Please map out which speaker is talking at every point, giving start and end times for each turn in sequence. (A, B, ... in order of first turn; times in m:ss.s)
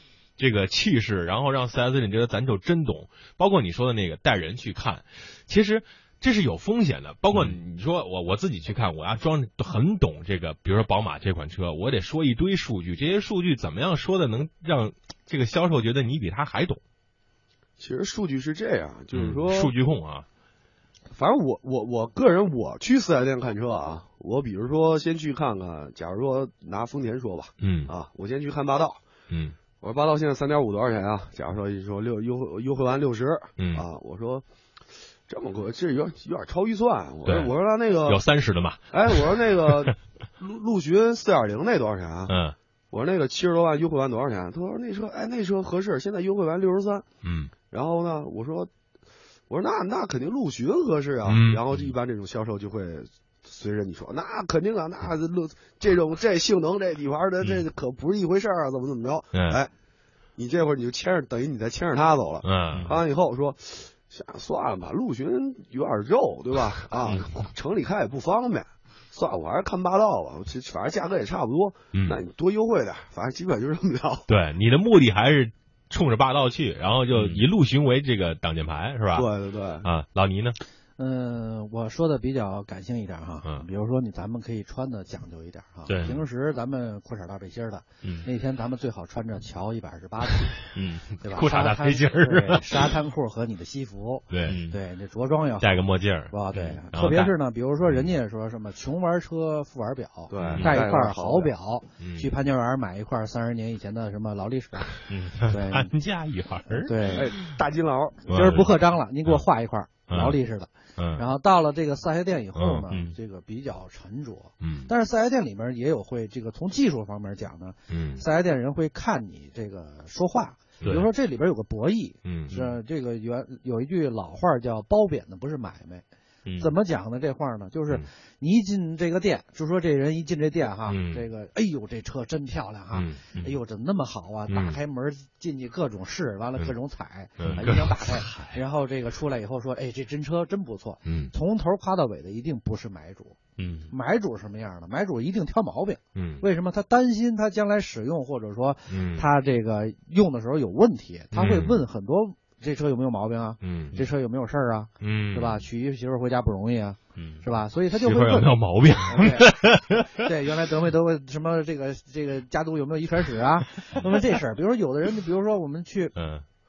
0:00.4-0:16.8 A
0:07.3-0:07.6 B
0:17.8-0:19.7 C
0:19.1-0:20.3 A
0:21.1-0:29.0 C
0:27.6-0:27.9 A
0:29.3-0:29.6 A
0:29.8-0:34.4 C
0:33.6-0:33.9 A
0:35.3-0:38.2 C
0:37.2-0:39.9 A
0:38.9-0:42.4 C
0:42.3-0:42.6 A
0:42.9-0:47.1 C
0:47.2-0:47.5 A
0:47.7-0:48.7 C
0:49.5-0:59.7 C
0:51.2-0:51.9 A
0:59.3-0:59.6 A
1:00.4-1:14.3 C
1:02.4-1:03.0 A
1:02.7-1:03.0 B
1:11.9-1:12.2 A
1:14.3-1:19.3 A
1:17.1-1:17.4 B
1:19.1-1:19.9 C
1:19.8-1:20.6 A
1:21.0-1:30.6 D
1:25.9-1:26.2 B
1:28.0-1:28.3 B
1:30.7-1:31.1 B
1:31.2-1:32.9 A
1:31.2-1:45.9 D
1:34.3-1:34.6 A
1:34.5-1:34.8 B
1:35.6-1:36.4 A
1:36.9-1:37.3 A
1:37.8-1:38.1 A
1:40.3-1:41.5 C
1:40.4-1:40.8 A
1:42.0-1:42.3 A
1:45.1-1:45.4 B
1:45.4-1:47.6 A
1:46.7-1:47.3 D
1:47.1-1:48.3 C
1:48.3-2:06.1 D
1:48.3-1:48.8 A
1:50.1-1:50.4 A
1:51.0-1:51.2 A
1:52.6-1:52.9 A
1:52.9-1:53.2 B
1:54.6-1:54.9 A
1:57.9-1:58.2 A
2:00.8-2:01.1 A
2:02.2-2:02.6 A
2:06.5-2:06.7 B
2:06.6-2:23.4 D
2:10.9-2:11.3 A
2:12.9-2:13.2 A
2:14.5-2:14.8 A
2:17.4-2:18.6 A
2:17.4-2:17.7 B
2:21.0-2:21.3 A
2:23.6-2:23.9 B
2:23.9-2:46.2 D
2:26.2-2:26.5 A
2:28.9-2:29.3 A
2:31.3-2:31.8 A
2:33.6-2:34.0 A
2:35.0-2:35.6 A
2:37.2-2:37.4 B
2:37.9-2:40.2 A
2:46.2-2:46.4 A